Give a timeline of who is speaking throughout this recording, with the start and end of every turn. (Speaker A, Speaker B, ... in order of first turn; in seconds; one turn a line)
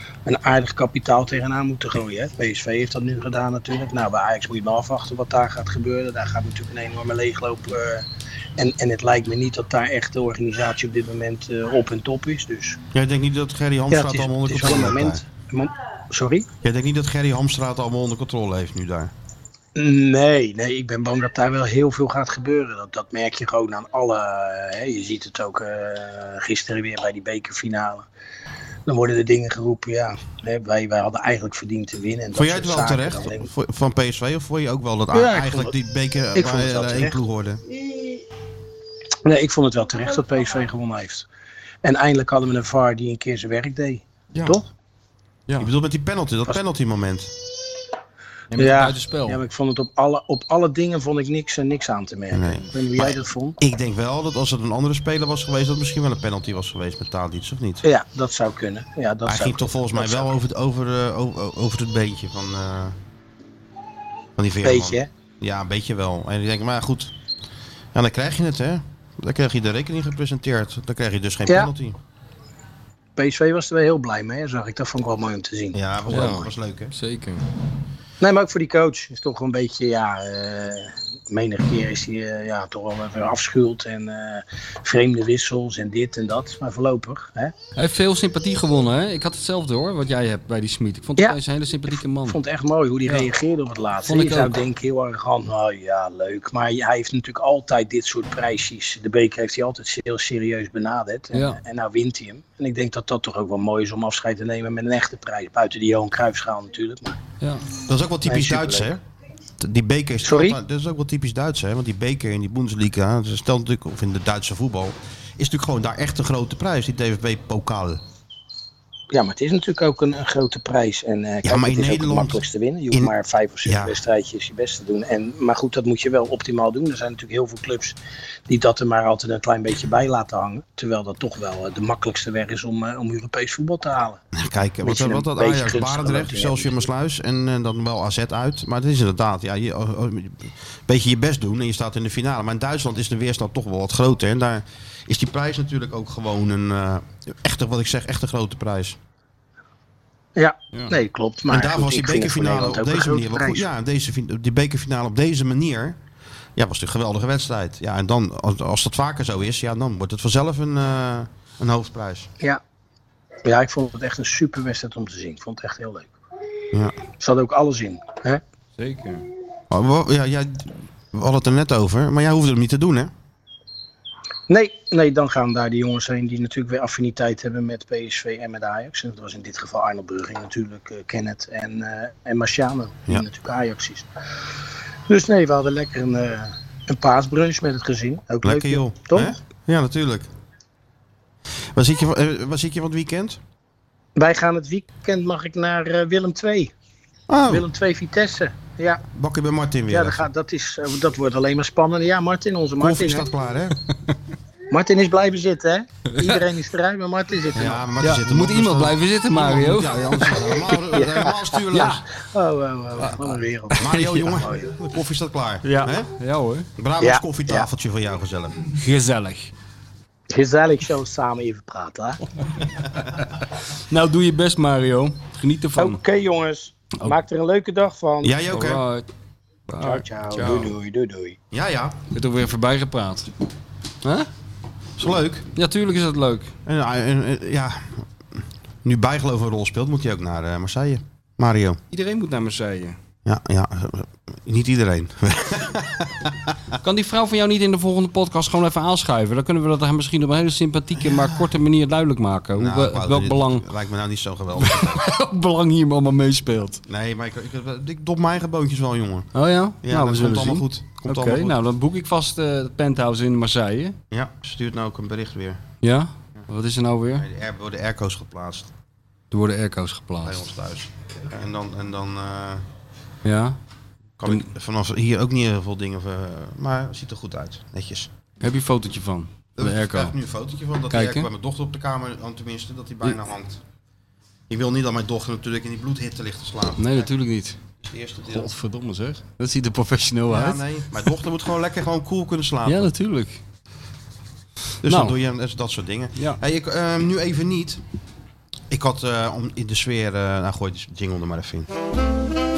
Speaker A: 0.2-8.1
Speaker A: 8.6-12.8
Speaker B: 12.9-15.2
Speaker A: 13.9-16.5
Speaker B: 16.6-19.1
Speaker A: 19.7-28.1
Speaker A: 28.9-33.5
Speaker B: 32.4-37.6
Speaker A: 35.1-35.8
Speaker A: 36.3-37.2
Speaker A: 39.2-41.3
Speaker A: 41.8-44.7
Speaker B: 45.6-47.3
Speaker C: 48.5-49.4
Speaker A: 48.6-53.6
Speaker B: 52.3-57.9
Speaker A: 57.8-60.3
Speaker B: 59.3-63.0
Speaker B: 64.3-67.1
Speaker A: 64.6-65.1
Speaker B: 67.9-72.0
Speaker A: 71.5-71.7
Speaker A: 73.2-75.8
Speaker B: 75.7-76.9
Speaker C: 76.1-77.4
Speaker A: 78.2-87.5
Speaker C: 87.8-92.4
Speaker A: 92.1-107.2
Speaker C: 94.1-94.6
Speaker C: 101.3-101.6
Speaker C: 107.4-107.7
Speaker B: 107.8-109.0
Speaker A: 108.3-108.9
Speaker B: 109.6-118.0
Speaker A: 110.2-110.6
Speaker A: 119.1-134.2
Speaker B: 121.4-124.0
Speaker B: 134.3-149.0
Speaker A: 134.8-136.7
Speaker A: 150.3-153.7
Speaker B: 151.5-156.0
Speaker B: 156.6-162.3
Speaker A: 163.4-166.1
Speaker A: 167.2-168.4
Speaker C: 168.8-169.2
Speaker B: 169.7-173.1
Speaker A: 174.5-184.1
Speaker A: 185.1-189.3
Speaker B: 188.4-190.3
Speaker B: 191.7-193.4
Speaker A: 194.2-196.7
Speaker B: 197.3-197.7
Speaker A: 197.5-199.0
Speaker B: 199.1-200.3
Speaker A: 199.9-203.3
Speaker B: 202.8-203.8
Speaker A: 204.7-207.9
Speaker B: 207.6-212.0
Speaker C: 208.0-210.8
Speaker A: 210.9-214.7
Speaker B: 213.8-216.1
Speaker C: 215.6-216.7
Speaker B: 216.8-218.6
Speaker A: 217.0-217.7
Speaker C: 218.8-219.5
Speaker A: 220.3-222.2
Speaker C: 223.7-226.0
Speaker A: 225.8-228.4
Speaker B: 228.2-228.8
Speaker C: 228.5-229.1
Speaker C: 229.7-230.7
Speaker A: 229.8-231.4
Speaker B: 231.5-232.0
Speaker C: 232.1-233.3
Speaker C: 234.0-234.3
Speaker B: 235.0-235.5
Speaker C: 235.6-236.5
Speaker B: 236.7-238.1
Speaker B: 238.8-241.8
Speaker C: 241.9-243.0
Speaker B: 243.2-246.6
Speaker C: 246.8-253.7
Speaker B: 251.1-251.4
Speaker B: 252.6-255.1
Speaker C: 254.6-256.8
Speaker B: 256.9-259.3
Speaker C: 259.4-264.0
Speaker B: 259.8-261.6
Speaker B: 264.1-265.6
Speaker C: 265.8-267.3
Speaker B: 267.1-268.7
Speaker C: 269.3-270.4
Speaker B: 270.2-272.6
Speaker C: 273.2-273.6
Speaker B: 274.2-278.1
Speaker C: 278.4-280.1
Speaker B: 279.6-283.6
Speaker C: 280.9-281.3
Speaker B: 284.5-287.1
Speaker C: 286.8-287.6
Speaker B: 287.8-288.5
Speaker C: 288.3-290.6
Speaker B: 290.3-292.9
Speaker C: 292.6-293.4
Speaker B: 294.8-297.8
Speaker C: 294.8-295.1
Speaker B: 298.7-301.7